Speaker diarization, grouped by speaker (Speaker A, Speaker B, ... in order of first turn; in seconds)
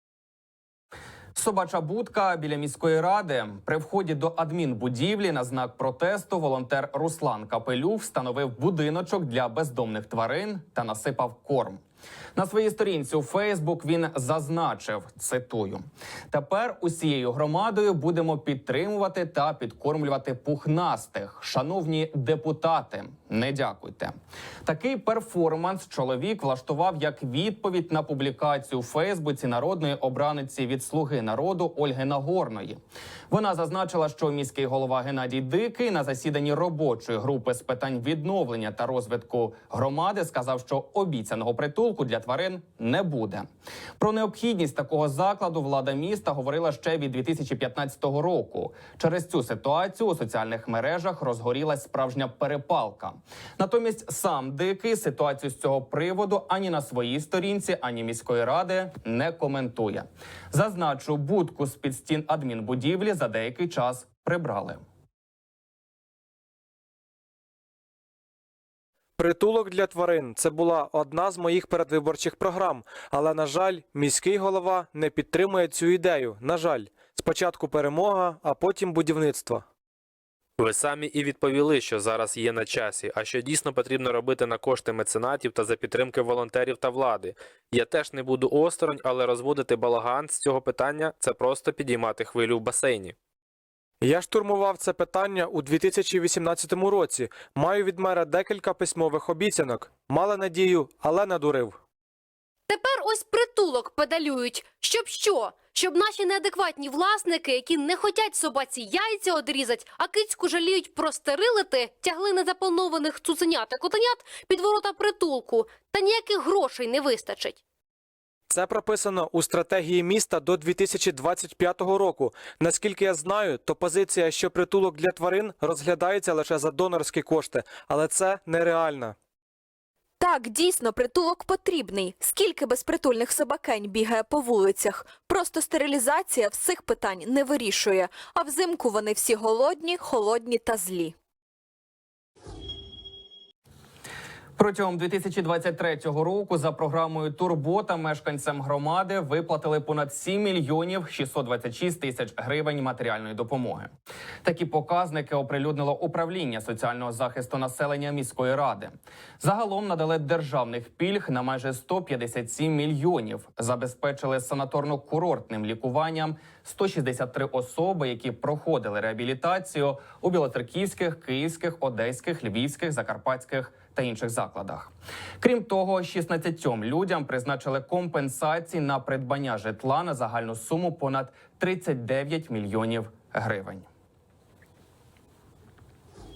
Speaker A: 1.4-11.8, 12.4-24.1, 24.6-32.8, 33.3-64.8, 144.6-153.9, 154.4-183.9
Speaker B: 69.2-79.6, 94.0-101.8, 118.5-129.1
Speaker C: 80.6-93.1
Speaker D: 102.7-117.6
Speaker E: 130.2-141.1